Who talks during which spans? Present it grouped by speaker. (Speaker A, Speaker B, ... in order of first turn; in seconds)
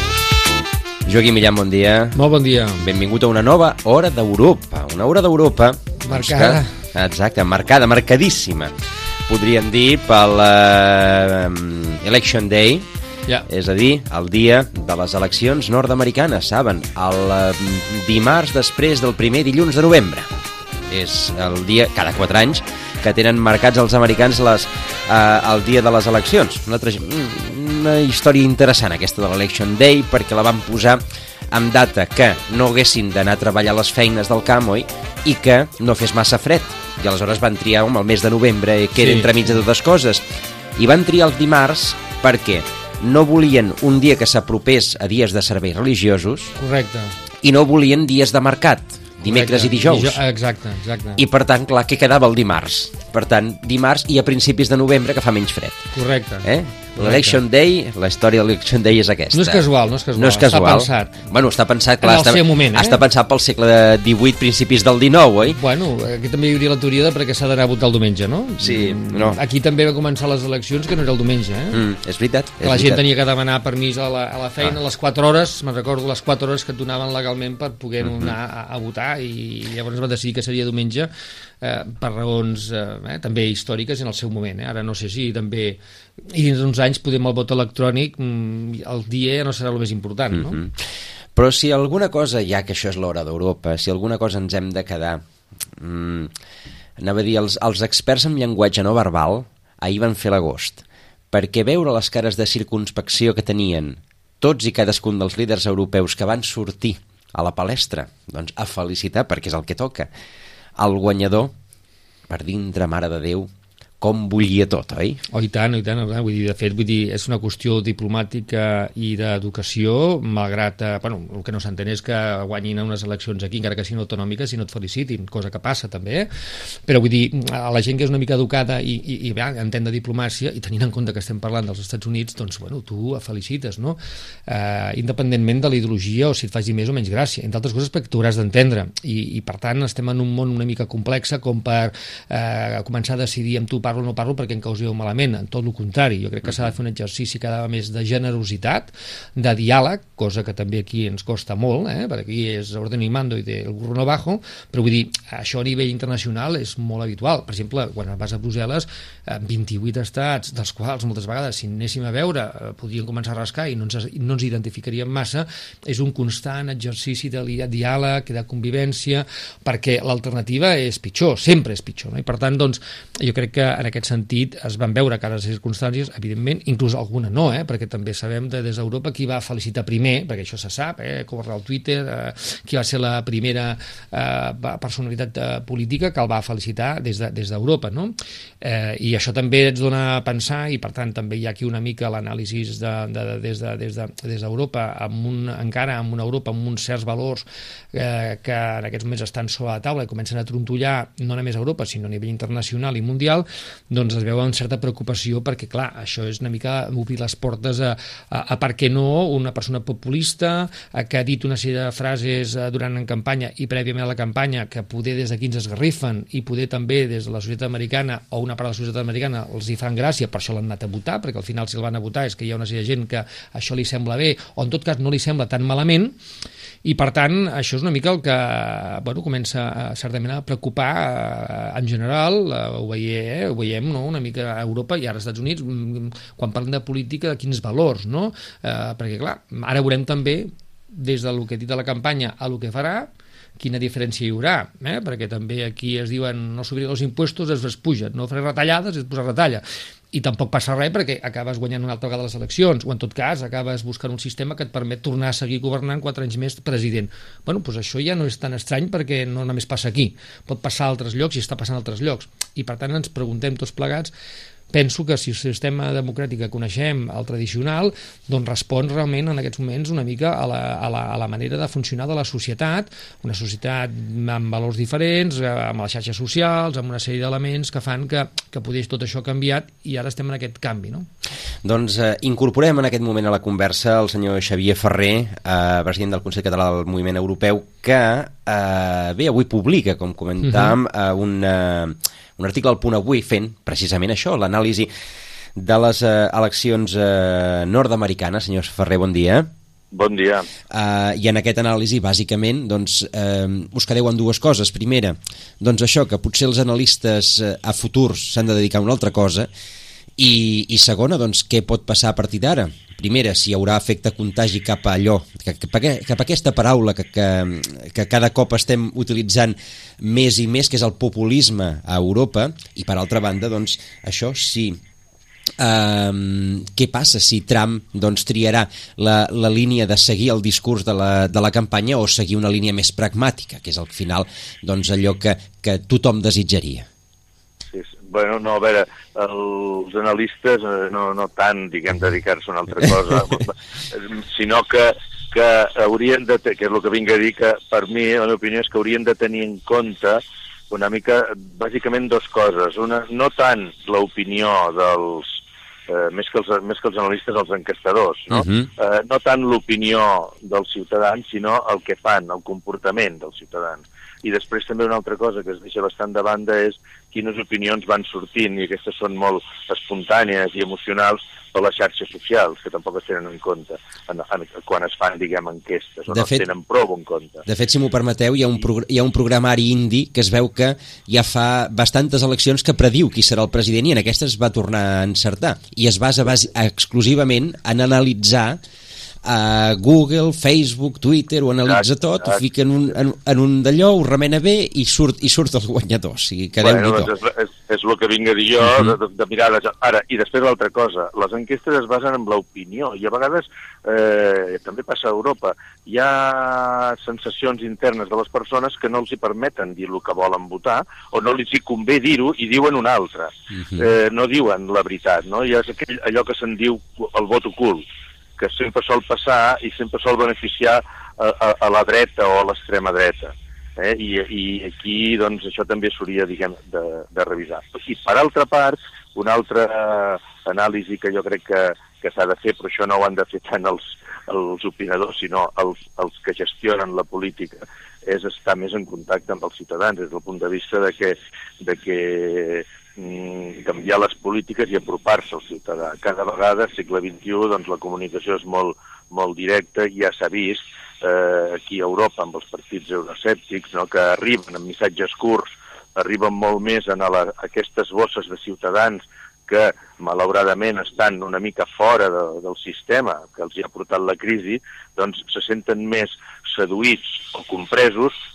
Speaker A: 1.1-2.2, 2.8-8.7, 9.3-12.9, 13.5-20.3, 20.9-40.2, 40.8-46.5, 47.4-50.2, 51.1-55.8, 56.4-65.6, 68.6-69.4, 71.7-73.0, 78.0-78.3, 90.3-90.8, 91.3-95.2, 95.8-96.3, 97.0-110.1, 110.8-111.5, 112.3-113.5, 114.0-115.2, 281.6-294.9, 295.6-299.5, 300.7-309.5, 310.2-324.8, 325.6-336.9, 358.3-358.7, 376.1-376.4, 377.4-388.6, 389.2-397.1
Speaker B: 2.1-2.8, 6.0-6.7, 39.0-39.3, 46.6-47.1, 49.2-51.2, 55.9-57.4, 59.3-61.2, 62.0-63.0, 65.5-71.8, 72.6-81.1, 81.6-85.8, 86.3-90.6, 115.3-126.3, 126.8-226.1, 226.8-264.1, 264.7-281.1
Speaker C: 299.9-300.5, 337.7-377.4, 391.7-392.4, 396.6-417.8, 418.4-468.1